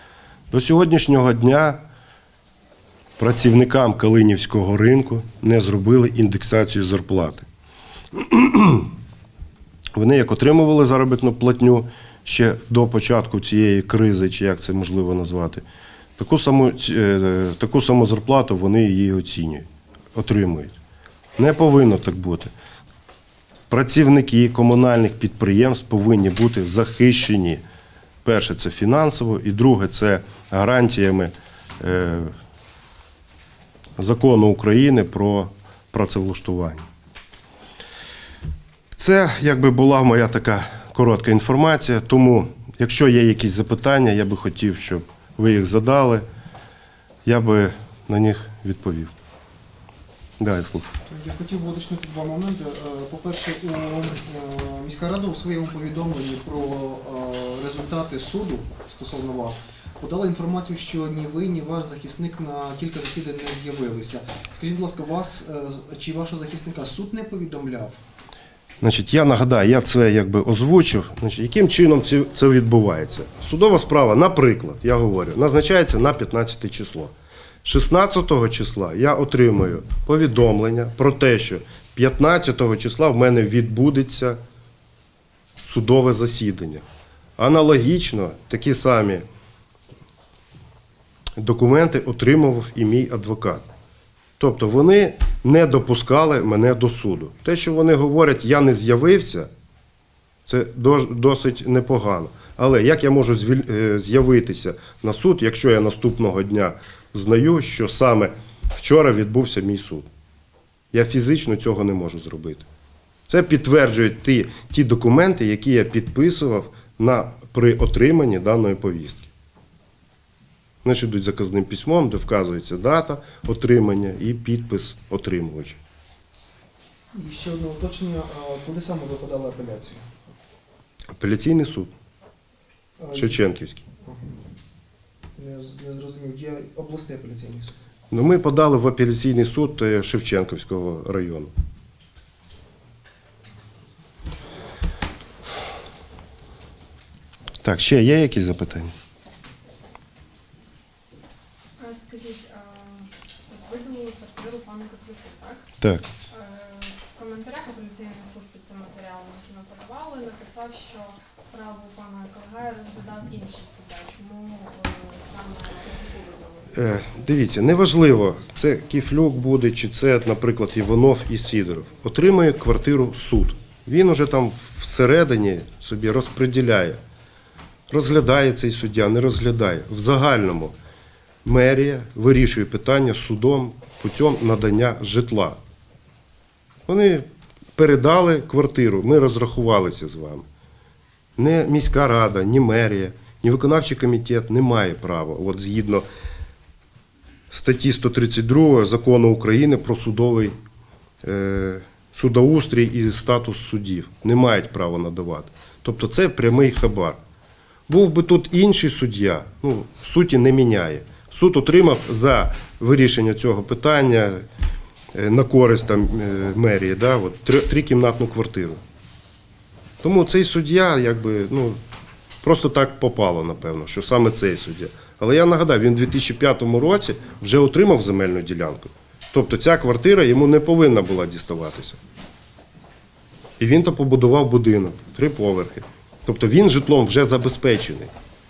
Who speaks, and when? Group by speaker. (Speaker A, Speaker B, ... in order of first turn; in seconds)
Speaker A: 0.5-1.8, 3.2-7.5, 8.2-8.9, 9.9-15.6, 16.2-20.8, 21.4-22.5, 23.7-27.6, 28.2-32.3, 34.0-36.8, 38.9-46.2, 47.2-49.1, 50.4-50.9, 68.8-84.4, 85.6-86.8, 87.4-89.2, 91.4-93.6, 94.4-99.5, 100.5-110.1, 110.9-112.6, 113.3-119.3, 120.8-125.8, 131.1-131.9, 133.1-133.8, 138.1-141.5, 147.6-148.9, 166.7-177.0, 177.9-180.7, 181.4-185.6, 186.9-187.2, 187.8-190.4, 191.4-196.0, 197.5-200.5, 201.2-207.2, 207.9-214.4, 215.1-218.8, 220.0-221.8, 222.4-232.0, 233.6-238.1
Speaker B: 51.1-68.0, 127.1-130.1, 133.0-133.4, 135.3-137.8
Speaker C: 151.8-155.7, 156.3-166.7